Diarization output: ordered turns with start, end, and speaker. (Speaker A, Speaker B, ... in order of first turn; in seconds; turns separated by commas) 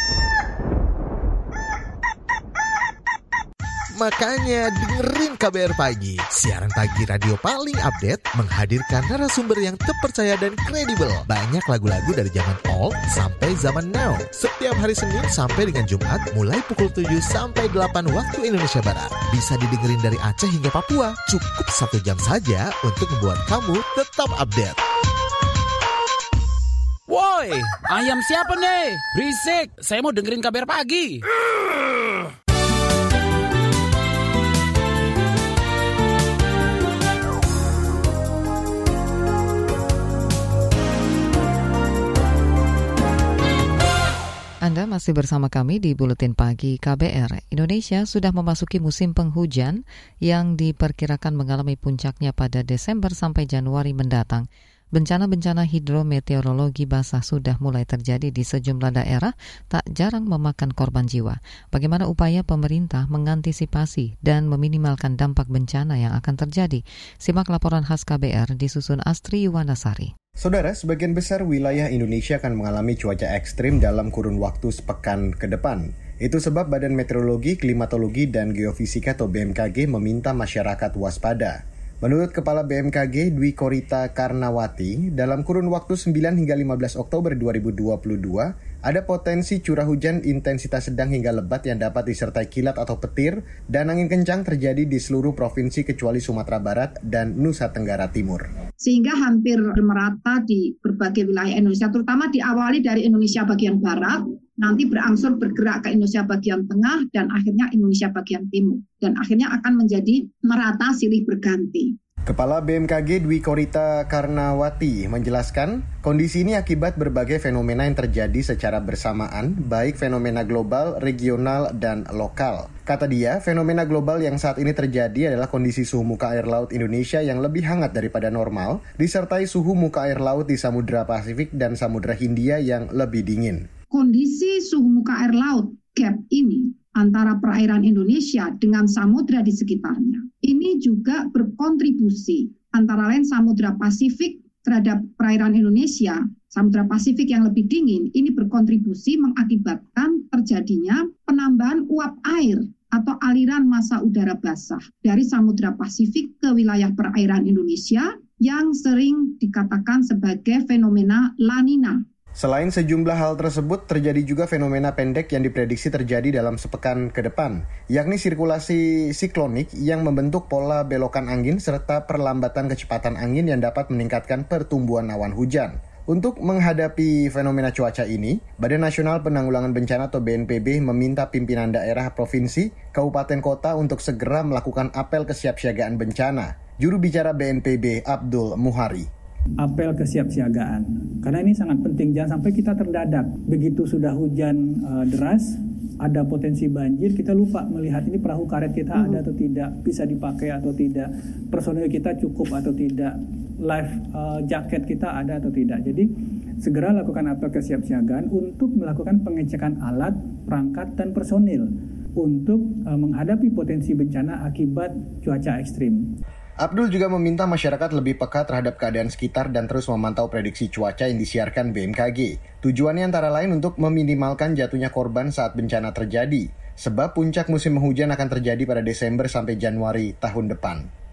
Speaker A: 3.9-24.8, Speaker B: 27.1-31.2, Speaker C: 44.6-70.1, Speaker D: 70.4-98.5, Speaker E: 98.8-111.9, Speaker D: 112.3-133.7, Speaker E: 133.9-162.0, Speaker D: 162.4-189.1, Speaker F: 189.6-206.1, Speaker F: 206.6-211.7, Speaker F: 212.2-216.0, Speaker D: 216.6-230.8